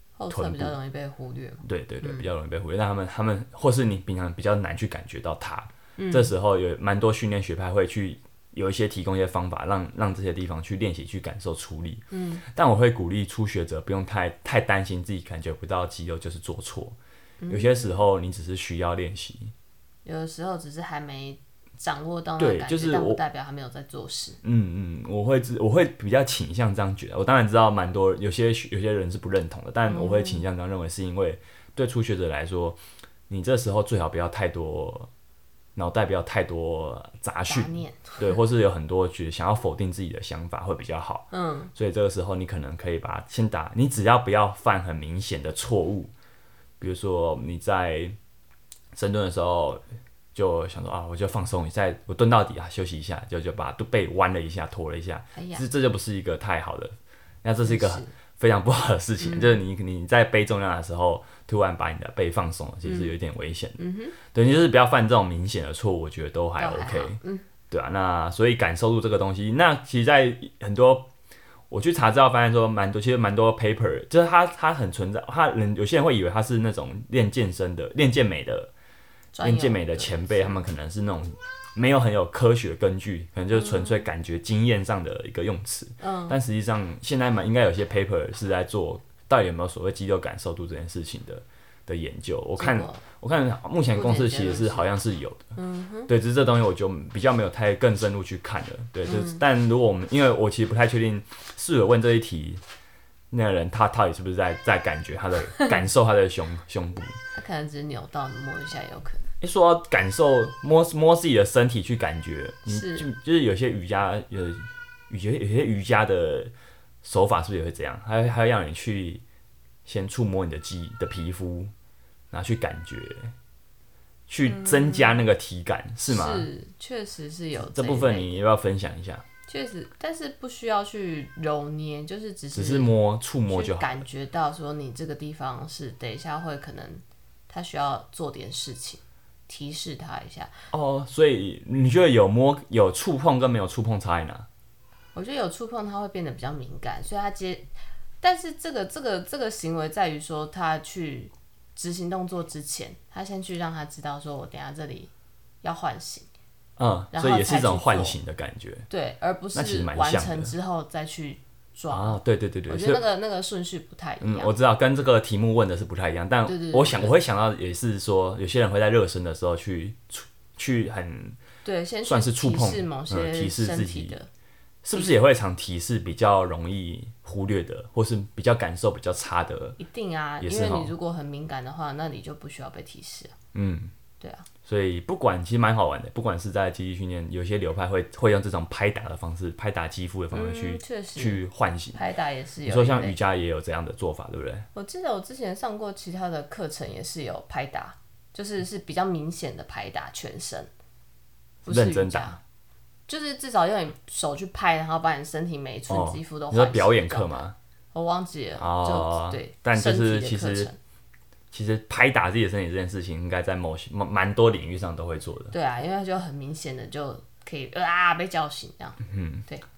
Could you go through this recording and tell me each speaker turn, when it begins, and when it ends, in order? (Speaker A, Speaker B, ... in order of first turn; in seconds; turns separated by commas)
Speaker A: 0.2-2.3, Speaker B: 0.3-0.8, Speaker B: 1.6-17.0, Speaker A: 6.0-6.3, Speaker A: 12.1-12.4, Speaker A: 17.4-18.0, Speaker B: 17.5-19.5, Speaker A: 20.1-24.4, Speaker B: 22.4-23.2, Speaker B: 24.4-35.1, Speaker A: 29.9-30.4, Speaker B: 35.8-46.1, Speaker A: 37.5-38.3, Speaker A: 41.3-41.7, Speaker B: 46.8-48.2, Speaker B: 48.9-49.8, Speaker B: 50.4-67.2, Speaker A: 55.4-55.6, Speaker A: 57.6-58.1, Speaker A: 59.2-59.6, Speaker A: 62.9-63.1, Speaker A: 63.8-64.2, Speaker A: 66.6-67.4, Speaker B: 67.7-71.1, Speaker B: 71.7-78.7, Speaker A: 79.3-80.6, Speaker B: 79.4-95.5, Speaker A: 83.5-84.0, Speaker A: 86.0-86.4, Speaker A: 92.6-93.0, Speaker A: 93.9-94.9, Speaker A: 95.6-96.1, Speaker B: 96.1-102.6, Speaker A: 99.0-99.4, Speaker B: 103.3-107.2, Speaker A: 107.3-109.3, Speaker B: 109.4-119.2, Speaker A: 112.7-113.1, Speaker B: 119.8-121.7, Speaker B: 122.3-123.3, Speaker B: 124.3-126.5, Speaker A: 124.5-125.2, Speaker A: 126.1-128.3, Speaker B: 127.6-129.2, Speaker A: 129.5-132.9, Speaker B: 132.5-134.0, Speaker A: 133.5-140.7, Speaker B: 140.7-144.5, Speaker A: 145.2-147.7, Speaker A: 148.2-155.1, Speaker A: 155.6-156.3, Speaker B: 156.8-158.9, Speaker A: 157.1-158.2, Speaker A: 158.9-164.5, Speaker B: 159.5-160.5, Speaker B: 161.9-163.0, Speaker B: 164.2-171.4, Speaker A: 166.5-167.2, Speaker A: 171.6-174.3, Speaker B: 172.0-174.2, Speaker B: 174.8-179.8, Speaker A: 179.8-183.3, Speaker B: 180.4-180.9, Speaker B: 183.5-183.9, Speaker A: 184.2-184.5, Speaker B: 184.7-192.0, Speaker A: 190.3-191.4, Speaker A: 191.9-193.2, Speaker B: 192.7-194.7, Speaker A: 194.7-200.7, Speaker B: 201.7-202.4, Speaker A: 201.7-202.4, Speaker A: 203.1-210.8, Speaker B: 205.9-207.6, Speaker B: 208.6-210.7, Speaker B: 211.5-215.6, Speaker A: 215.5-219.6, Speaker B: 219.0-219.5